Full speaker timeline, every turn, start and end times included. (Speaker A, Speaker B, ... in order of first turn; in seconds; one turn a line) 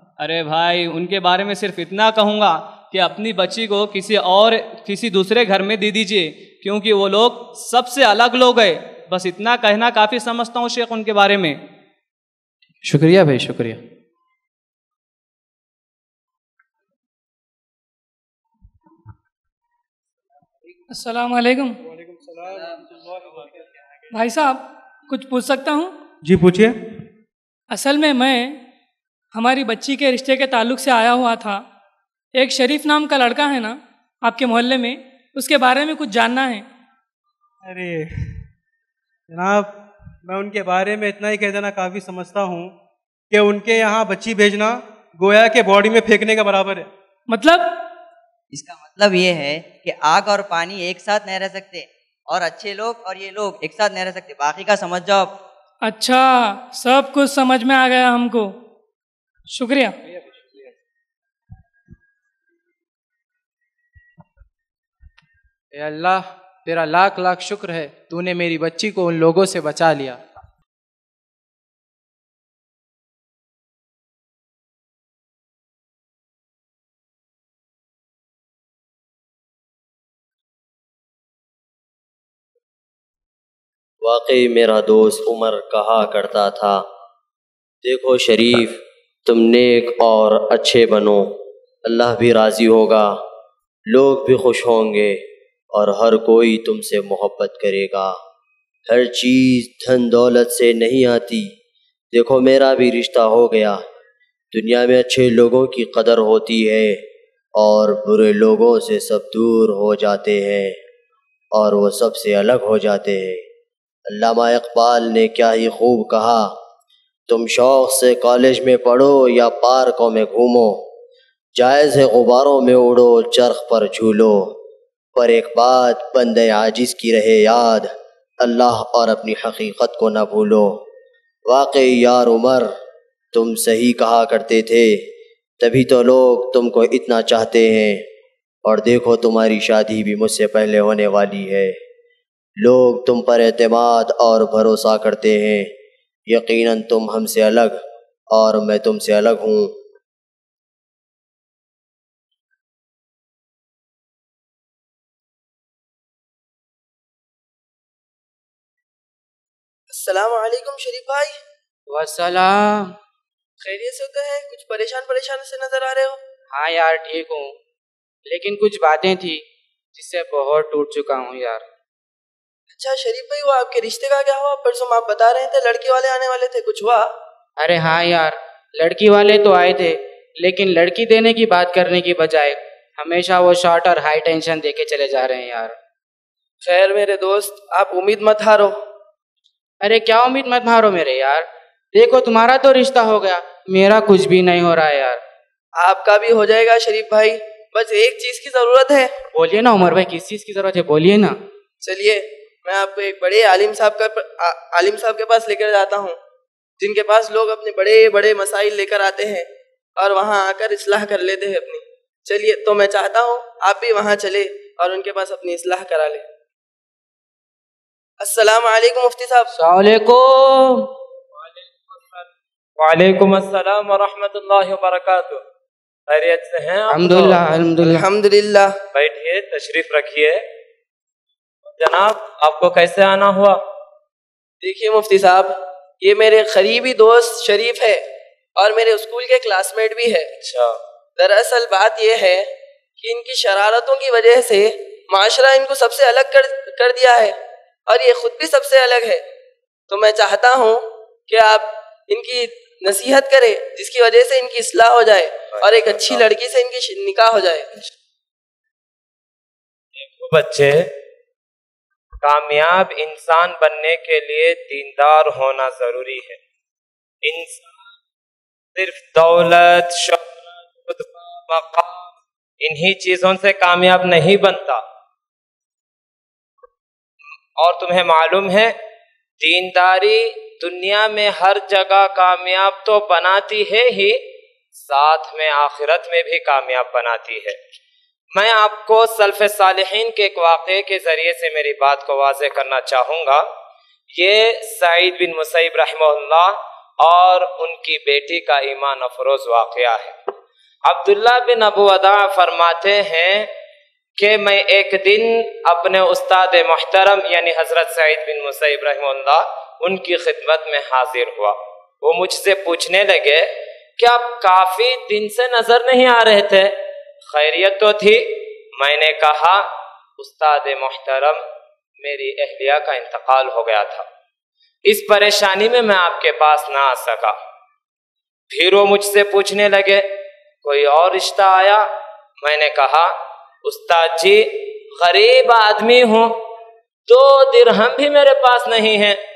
Speaker A: 0.2-11.6
Speaker B: 12.8-13.8
Speaker C: 20.9-21.8
Speaker D: 22.0-22.8
Speaker C: 24.1-25.9
Speaker D: 26.2-26.7
Speaker C: 27.7-28.6
Speaker C: 29.3-31.7
Speaker C: 32.3-36.7
Speaker D: 37.7-38.0
Speaker D: 39.3-39.7
Speaker D: 40.3-42.7
Speaker D: 43.3-46.9
Speaker C: 47.3-47.9
Speaker E: 48.5-55.3
Speaker C: 55.8-58.5
Speaker C: 59.5-60.0
Speaker B: 65.8-70.2
Speaker F: 84.0-86.8
Speaker F: 87.8-91.3
Speaker F: 91.9-93.1
Speaker F: 93.9-95.2
Speaker F: 95.7-98.2
Speaker F: 98.9-101.5
Speaker F: 102.1-103.8
Speaker F: 104.5-107.0
Speaker F: 107.6-110.8
Speaker F: 111.5-113.5
Speaker F: 114.1-116.5
Speaker F: 117.3-120.8
Speaker F: 121.6-124.6
Speaker F: 125.2-127.9
Speaker F: 128.4-130.8
Speaker F: 131.5-132.7
Speaker F: 133.3-135.1
Speaker F: 135.6-138.1
Speaker F: 138.7-141.8
Speaker F: 142.6-145.7
Speaker F: 146.3-149.7
Speaker G: 159.9-161.4
Speaker H: 161.9-162.9
Speaker G: 163.6-166.2
Speaker H: 166.5-167.5
Speaker H: 168.3-171.6
Speaker G: 172.7-177.1
Speaker H: 177.6-185.8
Speaker G: 186.6-188.8
Speaker H: 189.8-195.2
Speaker G: 195.8-199.1
Speaker H: 199.3-201.4
Speaker G: 201.8-206.2
Speaker G: 206.8-216.2
Speaker G: 218.2-219.5
Speaker H: 219.6-220.9
Speaker I: 222.8-225.4
Speaker I: 226.1-227.4
Speaker H: 226.9-228.1
Speaker G: 227.9-228.8
Speaker I: 228.9-230.4
Speaker I: 231.7-233.6
Speaker G: 234.6-238.0
Speaker G: 238.6-240.3
Speaker G: 241.2-247.4
Speaker G: 247.9-249.2
Speaker G: 249.9-257.9
Speaker I: 255.6-256.1
Speaker I: 260.0-260.9
Speaker I: 262.2-266.4
Speaker I: 267.2-267.8
Speaker I: 268.8-274.8
Speaker I: 277.6-278.8
Speaker I: 279.4-284.2
Speaker I: 284.8-287.6
Speaker I: 288.4-293.5
Speaker I: 294.1-300.2
Speaker I: 300.9-303.5
Speaker I: 304.2-316.8
Speaker I: 317.2-319.6
Speaker I: 320.2-321.4
Speaker I: 322.0-324.1
Speaker I: 324.9-327.4
Speaker I: 328.5-330.1
Speaker I: 330.6-331.9
Speaker I: 332.4-333.1
Speaker I: 333.6-336.3
Speaker I: 337.1-339.2